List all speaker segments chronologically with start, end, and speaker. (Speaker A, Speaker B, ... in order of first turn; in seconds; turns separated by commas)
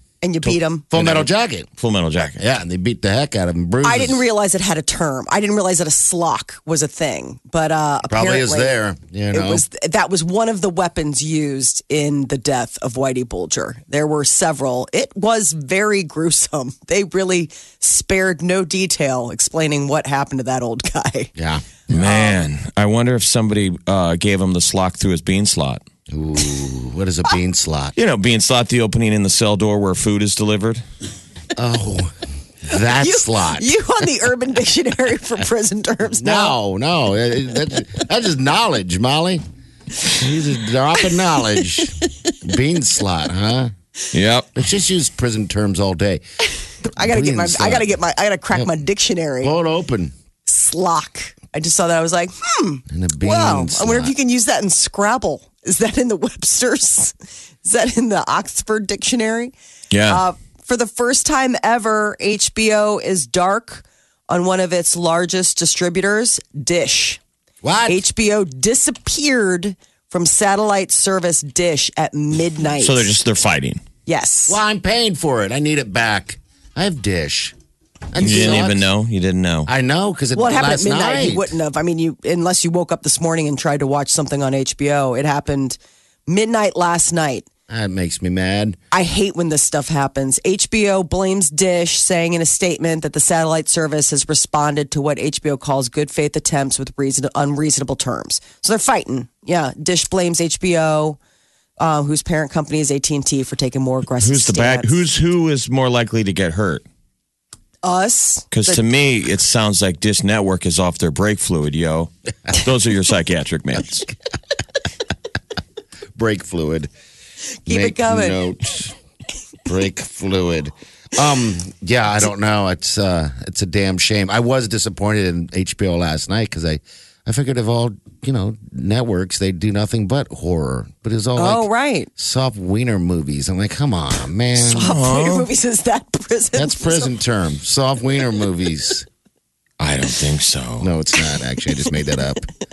Speaker A: 0.2-0.9, Speaker B: 0.4-2.4, Speaker C: 0.9-1.7, Speaker C: 2.4-4.2, Speaker A: 3.8-8.8, Speaker C: 8.1-9.6, Speaker A: 9.3-21.3, Speaker C: 21.4-22.3, Speaker B: 21.9-25.8, Speaker C: 26.1-27.9, Speaker B: 27.9-30.8, Speaker C: 31.6-33.7, Speaker A: 32.7-36.6, Speaker C: 36.1-39.4, Speaker C: 40.0-43.7, Speaker B: 44.1-44.5, Speaker C: 44.6-46.2, Speaker A: 46.8-49.5, Speaker C: 46.9-47.9, Speaker C: 49.4-50.1, Speaker A: 50.5-59.5, Speaker C: 52.9-54.1, Speaker B: 59.9-60.2, Speaker A: 60.1-67.2, Speaker C: 67.6-68.0, Speaker A: 67.9-73.1, Speaker B: 72.8-73.8, Speaker A: 74.1-74.6, Speaker C: 74.5-77.5, Speaker C: 78.1-78.9, Speaker B: 78.2-79.7, Speaker C: 79.7-81.5, Speaker A: 80.3-87.5, Speaker C: 87.7-88.8, Speaker A: 88.9-101.2, Speaker A: 101.8-105.0, Speaker B: 104.2-106.8, Speaker A: 107.8-108.8, Speaker B: 108.5-114.1, Speaker C: 116.2-116.9, Speaker A: 117.7-118.4, Speaker C: 117.7-119.0, Speaker C: 119.6-134.9, Speaker A: 131.4-132.1, Speaker A: 134.6-137.1, Speaker B: 134.8-135.5, Speaker C: 136.5-139.1, Speaker B: 139.8-140.9, Speaker C: 140.8-142.5